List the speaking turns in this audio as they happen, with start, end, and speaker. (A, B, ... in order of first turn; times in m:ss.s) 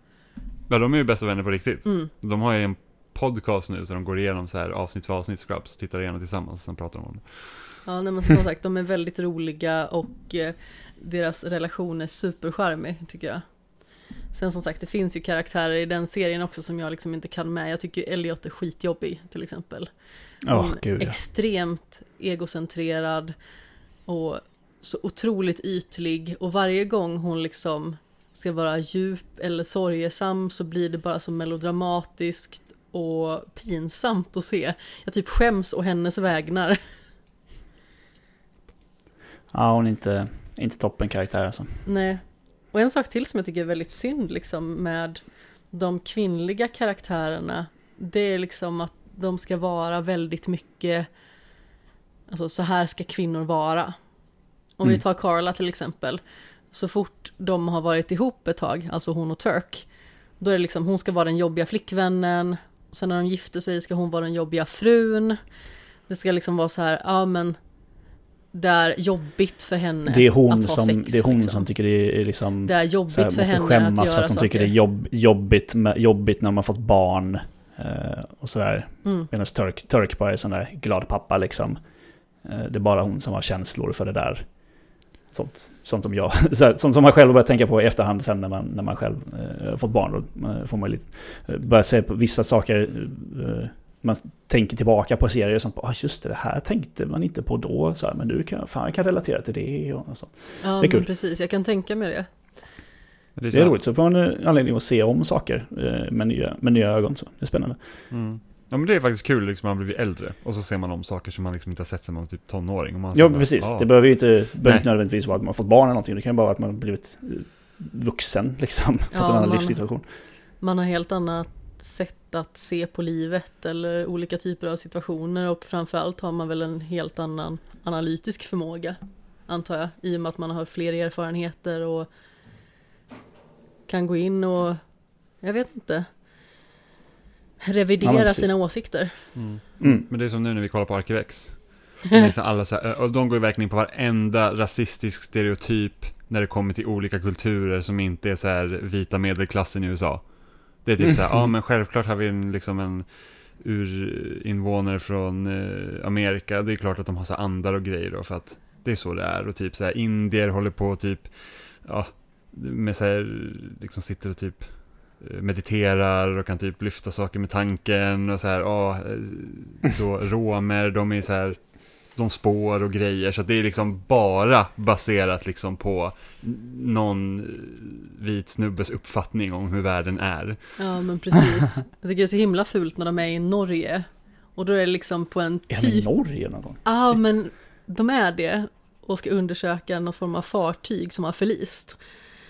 0:00.7-0:07.8 A
0:01.8-0:02.1 B
0:07.8-0:23.4 B
0:20.4-0:21.2 C
0:24.0-0:36.8 B
0:39.5-0:41.8 C
0:41.8-0:51.1 B
0:52.3-0:54.0 B
0:54.7-1:05.4 B
1:06.1-1:07.6 B
1:08.5-1:11.7 B
1:10.1-1:21.8 C
1:12.6-1:14.7 B
1:19.0-1:19.3 B
1:22.4-1:41.1 C
1:40.6-1:42.3 B
1:43.4-1:43.8 A
1:43.5-1:47.8 C
1:48.1-1:54.9 A
1:53.1-2:00.0 C
1:59.1-1:59.8 B
2:00.6-2:12.1 B
2:13.9-2:16.1 B
2:17.6-2:19.3 B
2:18.0-2:18.5 C
2:19.3-3:00.8 A
2:19.8-2:20.0 C
2:31.0-2:31.5 C
3:00.8-3:06.1 B
3:05.7-3:07.2 C
3:06.8-3:12.0 B